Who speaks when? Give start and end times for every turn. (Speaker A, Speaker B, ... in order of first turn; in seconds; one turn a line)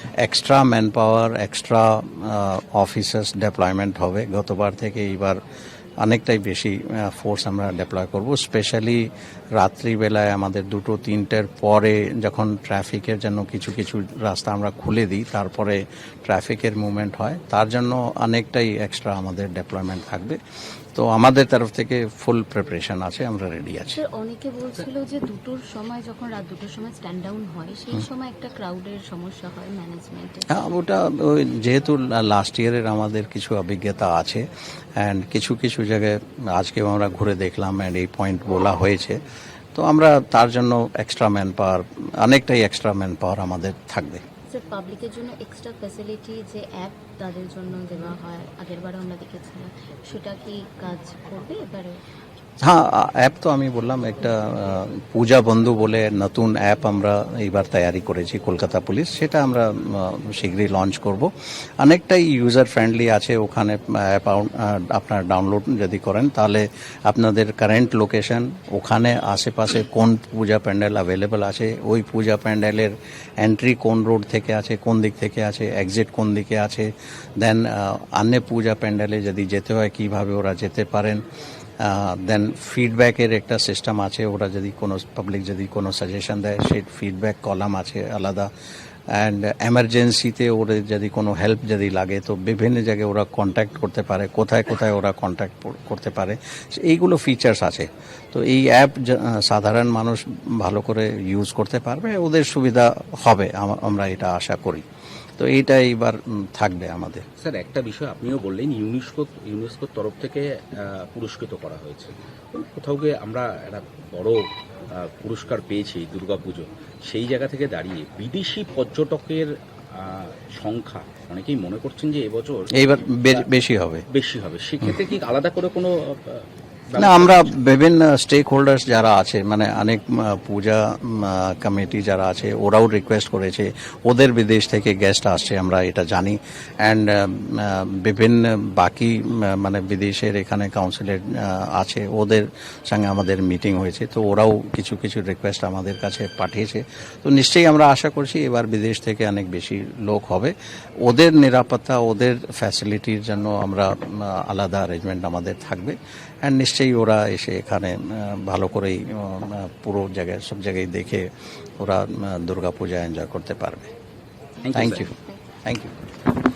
Speaker A: 0.2-5.4
Speaker A: 6.0-20.4
Speaker A: 20.9-24.0
Speaker B: 24.0-30.4
Speaker A: 30.5-34.5
Speaker A: 35.0-39.2
Speaker A: 39.7-44.2
Speaker B: 44.5-52.0
Speaker A: 52.6-61.3
Speaker A: 61.8-76.9
Speaker A: 77.4-81.2
Speaker A: 81.8-88.5
Speaker A: 89.1-104.8
Speaker A: 105.4-107.2
Speaker C: 107.4-114.4
Speaker C: 114.9-122.7
Speaker A: 122.8-124.0
Speaker C: 124.1-127.5
Speaker A: 127.0-150.5
Speaker A: 151.0-161.3
Speaker A: 161.8-163.9
Speaker C: 164.6-165.2
Speaker A: 164.7-165.1
Speaker A: 165.6-165.9